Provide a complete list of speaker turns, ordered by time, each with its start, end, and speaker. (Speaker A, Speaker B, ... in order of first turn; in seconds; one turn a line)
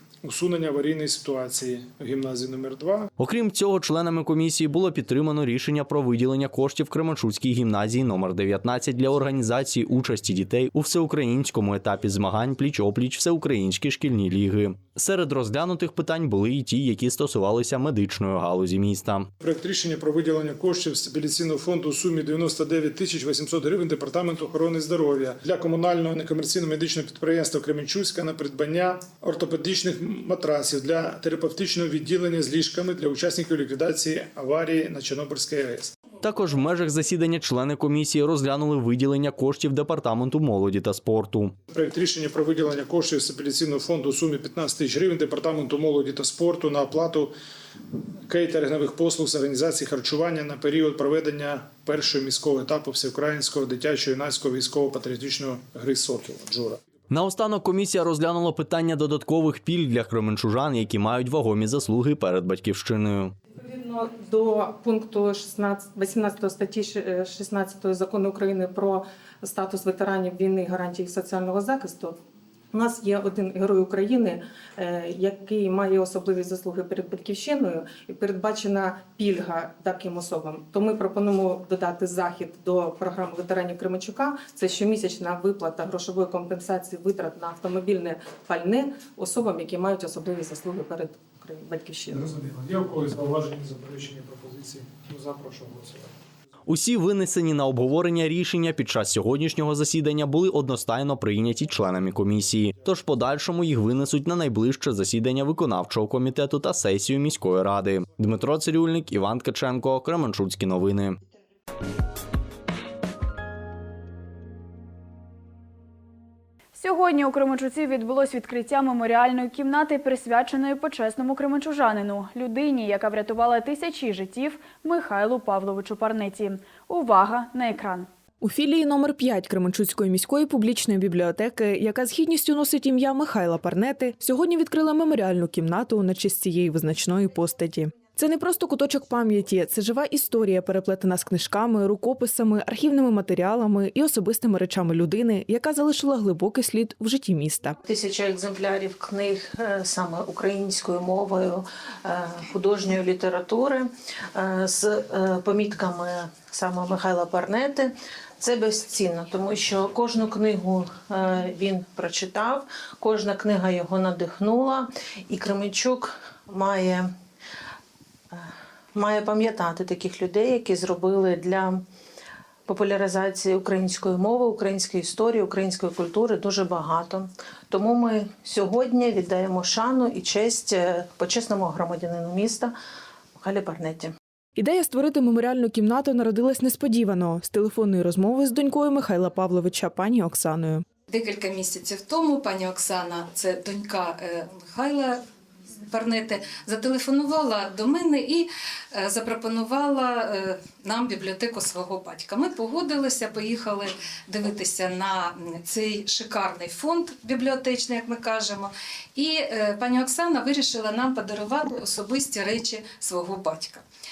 Speaker A: 0.2-3.1
Speaker B: 3.2-19.3
Speaker A: 19.4-35.9
Speaker B: 36.2-41.5
Speaker A: 41.7-47.3
Speaker A: 48.3-56.8
Speaker B: 57.1-63.4
Speaker C: 63.6-72.2
Speaker C: 72.7-92.4
Speaker A: 92.2-96.2
Speaker B: 96.7-111.2
Speaker D: 116.8-128.1
Speaker E: 128.4-147.8
Speaker F: 147.8-167.1
Speaker F: 168.3-171.8
Speaker F: 172.7-182.7
Speaker F: 183.4-184.1
Speaker E: 184.6-190.8
Speaker G: 191.1-195.2
Speaker G: 195.9-213.8